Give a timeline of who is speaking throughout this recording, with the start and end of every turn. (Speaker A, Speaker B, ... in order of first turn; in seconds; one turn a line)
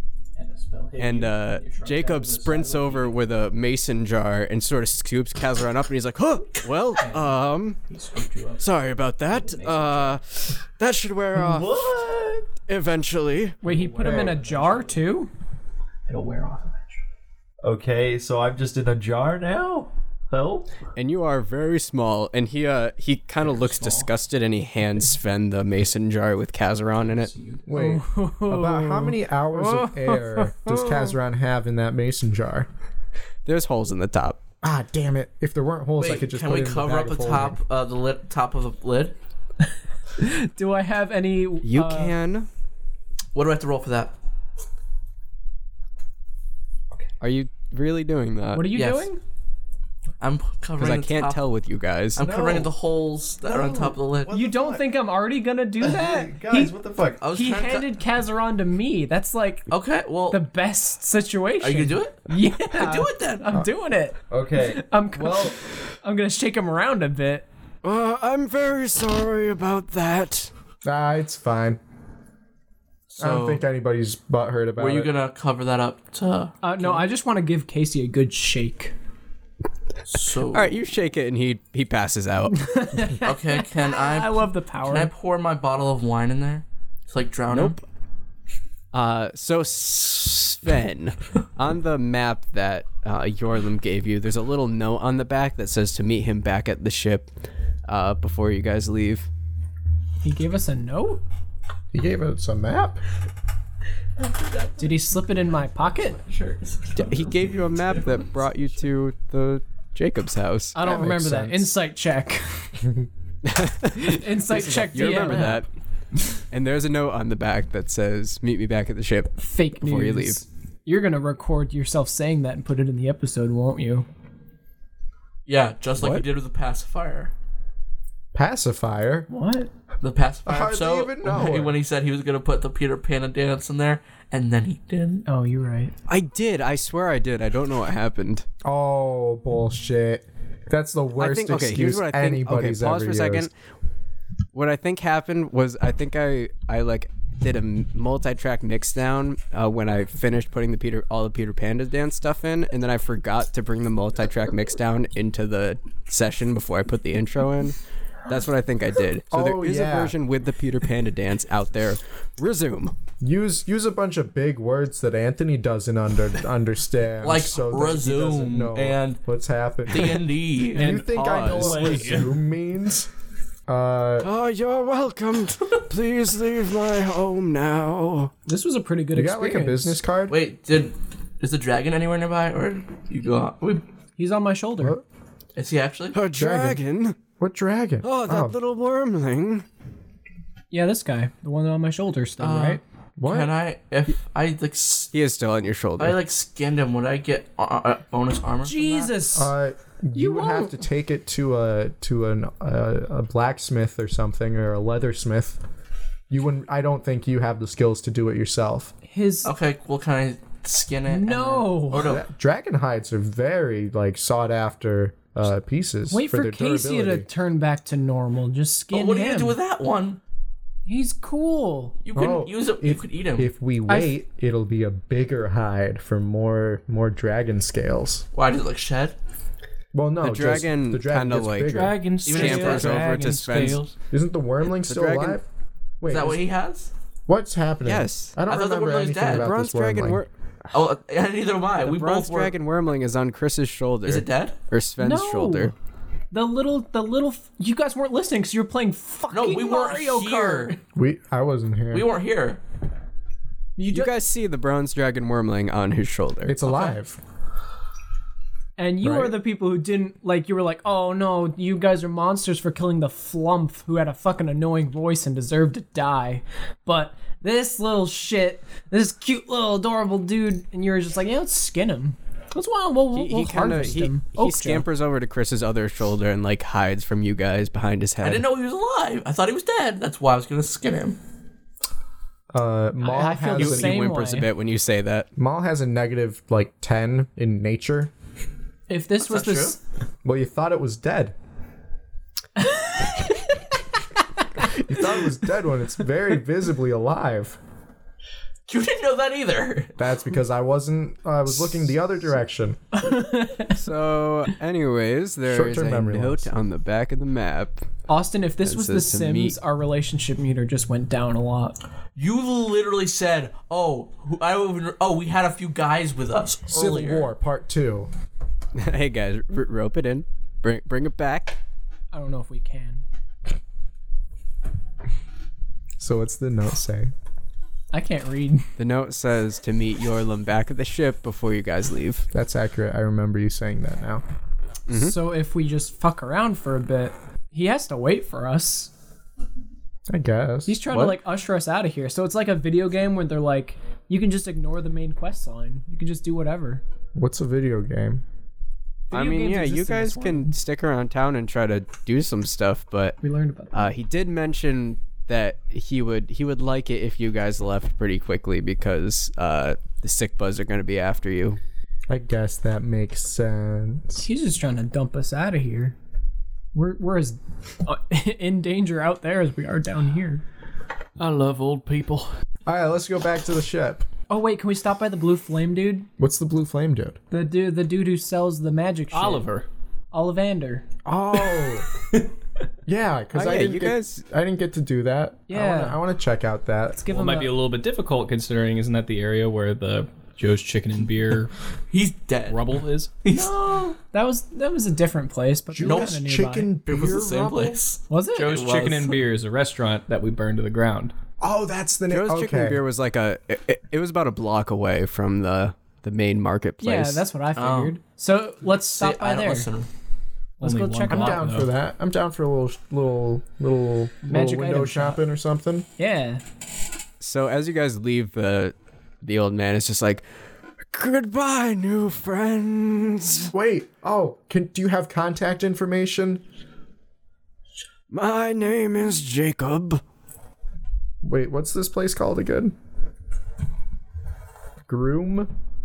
Speaker A: 0.4-3.3
Speaker B: 1.0-7.8
Speaker A: 7.0-10.2
Speaker B: 8.6-11.9
Speaker C: 11.3-12.5
Speaker B: 12.7-13.6
Speaker A: 13.6-15.0
Speaker D: 13.6-15.3
Speaker E: 14.0-14.4
Speaker A: 16.1-17.0
Speaker C: 17.6-20.7
Speaker B: 20.9-27.3
Speaker A: 23.4-24.1
Speaker A: 27.1-27.6
Speaker E: 27.7-32.7
Speaker D: 27.7-31.0
Speaker B: 33.5-34.4
Speaker E: 34.6-37.6
Speaker F: 36.0-39.1
Speaker D: 40.2-42.1
Speaker B: 41.6-42.5
Speaker F: 43.4-44.1
Speaker B: 47.2-48.7
Speaker D: 48.5-49.2
Speaker F: 48.7-49.1
Speaker F: 50.2-51.5
Speaker B: 50.8-52.2
Speaker F: 52.2-54.5
Speaker C: 52.2-52.6
Speaker C: 53.5-54.8
Speaker D: 54.3-56.8
Speaker C: 55.8-57.2
Speaker F: 57.2-57.9
Speaker D: 57.3-59.7
Speaker F: 59.7-60.4
Speaker D: 60.3-67.5
Speaker F: 61.6-63.5
Speaker C: 64.3-65.6
Speaker B: 67.8-70.5
Speaker E: 70.8-71.8
Speaker F: 73.1-73.6
Speaker E: 73.2-75.1
Speaker F: 74.8-77.0
Speaker D: 76.6-78.9
Speaker F: 80.1-80.8
Speaker B: 80.5-82.7
Speaker D: 82.6-85.1
Speaker F: 83.2-87.8
Speaker B: 87.5-87.8
Speaker B: 88.9-97.3
Speaker B: 97.9-99.3
Speaker D: 100.2-101.2
Speaker E: 101.9-103.0
Speaker F: 104.2-105.0
Speaker D: 104.8-106.2
Speaker F: 106.2-108.3
Speaker B: 106.9-110.8
Speaker D: 110.7-112.9
Speaker E: 110.8-111.7
Speaker B: 113.5-115.7
Speaker D: 113.9-115.6
Speaker B: 116.5-120.4
Speaker D: 119.4-124.1
Speaker F: 125.5-127.3
Speaker B: 126.0-126.2
Speaker E: 128.3-129.3
Speaker D: 129.3-129.7
Speaker F: 130.0-135.3
Speaker E: 130.5-131.8
Speaker D: 135.3-135.9
Speaker B: 136.1-138.4
Speaker E: 138.6-143.5
Speaker B: 141.2-143.5
Speaker B: 144.5-162.9
Speaker E: 159.3-160.2
Speaker E: 163.2-173.1
Speaker F: 167.2-169.2
Speaker F: 169.9-170.9
Speaker A: 170.8-172.3
Speaker B: 170.8-172.2
Speaker E: 173.7-174.3
Speaker B: 174.2-178.3
Speaker D: 178.5-180.0
Speaker E: 179.1-180.4
Speaker F: 180.3-183.8
Speaker D: 184.2-185.0
Speaker F: 185.6-186.2
Speaker B: 186.1-187.2
Speaker E: 186.3-186.8
Speaker E: 187.4-188.6
Speaker B: 188.0-189.7
Speaker D: 190.7-192.8
Speaker F: 192.4-195.1
Speaker E: 193.2-193.5
Speaker B: 195.1-196.2
Speaker F: 196.0-199.2
Speaker D: 198.6-199.5
Speaker E: 199.3-205.6
Speaker D: 200.2-200.8
Speaker E: 206.3-208.9
Speaker D: 209.1-209.5
Speaker F: 209.4-212.2
Speaker D: 211.1-212.1
Speaker E: 211.9-217.3
Speaker D: 216.1-219.6
Speaker F: 218.9-220.2
Speaker D: 220.9-222.0
Speaker F: 222.0-223.5
Speaker E: 222.2-228.2
Speaker F: 228.3-229.2
Speaker E: 229.9-232.0
Speaker B: 230.2-233.9
Speaker A: 231.7-233.9
Speaker F: 232.2-233.1
Speaker E: 234.1-235.4
Speaker B: 234.9-235.4
Speaker E: 236.0-236.5
Speaker F: 236.1-236.9
Speaker E: 237.3-240.2
Speaker B: 237.8-238.3
Speaker F: 238.5-239.5
Speaker B: 239.2-240.3
Speaker F: 240.7-242.5
Speaker B: 241.8-245.7
Speaker F: 244.1-244.6
Speaker D: 245.0-245.7
Speaker D: 246.3-250.8
Speaker F: 249.3-250.8
Speaker E: 251.0-252.1
Speaker F: 251.9-252.6
Speaker D: 253.8-254.1
Speaker B: 253.9-256.6
Speaker E: 256.4-257.2
Speaker D: 258.8-274.9
Speaker E: 259.0-259.4
Speaker B: 273.1-278.4
Speaker F: 278.2-281.2
Speaker E: 282.5-284.0
Speaker D: 283.0-284.5
Speaker B: 283.6-285.3
Speaker E: 285.4-288.1
Speaker D: 288.9-289.8
Speaker F: 289.2-289.8
Speaker E: 290.2-291.4
Speaker D: 292.6-293.5
Speaker E: 294.6-297.6
Speaker F: 298.7-299.9
Speaker E: 300.0-302.8
Speaker D: 302.9-303.8
Speaker B: 303.7-307.9
Speaker E: 305.4-306.5
Speaker D: 308.1-311.8
Speaker B: 308.6-309.6
Speaker F: 312.2-317.3
Speaker E: 316.7-318.1
Speaker B: 318.8-321.6
Speaker D: 322.1-323.0
Speaker E: 326.0-327.1
Speaker D: 327.9-328.7
Speaker B: 328.8-332.3
Speaker E: 332.3-334.2
Speaker B: 334.9-335.2
Speaker D: 334.9-338.9
Speaker E: 340.1-340.8
Speaker D: 340.7-346.8
Speaker B: 340.9-341.2
Speaker E: 347.1-348.2
Speaker D: 349.1-350.6
Speaker B: 349.1-353.2
Speaker D: 353.2-353.9
Speaker B: 353.7-361.6
Speaker E: 362.1-364.2
Speaker D: 364.2-366.0
Speaker D: 366.7-370.4
Speaker A: 371.2-372.3
Speaker E: 372.7-374.1
Speaker D: 374.3-376.1
Speaker E: 376.2-377.2
Speaker D: 377.3-379.5
Speaker A: 379.1-379.7
Speaker D: 380.1-380.9
Speaker E: 381.1-381.9
Speaker E: 382.9-387.0
Speaker B: 383.3-384.2
Speaker D: 385.5-386.0
Speaker D: 386.9-387.6
Speaker A: 387.1-391.5
Speaker F: 391.9-392.6
Speaker A: 392.5-393.1
Speaker F: 393.2-393.5
Speaker D: 393.3-396.7
Speaker E: 395.7-397.8
Speaker F: 395.8-396.1
Speaker F: 396.9-399.2
Speaker D: 398.1-398.5
Speaker A: 398.4-401.1
Speaker E: 401.4-402.8
Speaker B: 402.1-407.2
Speaker D: 406.8-409.7
Speaker F: 407.6-408.0
Speaker F: 408.9-409.9
Speaker D: 410.6-411.5
Speaker A: 410.6-411.7
Speaker E: 411.1-415.9
Speaker D: 414.3-415.2
Speaker D: 416.0-416.4
Speaker B: 417.2-420.2
Speaker B: 420.9-423.5
Speaker E: 423.5-426.4
Speaker B: 428.1-430.0
Speaker E: 431.2-432.7
Speaker E: 434.9-435.5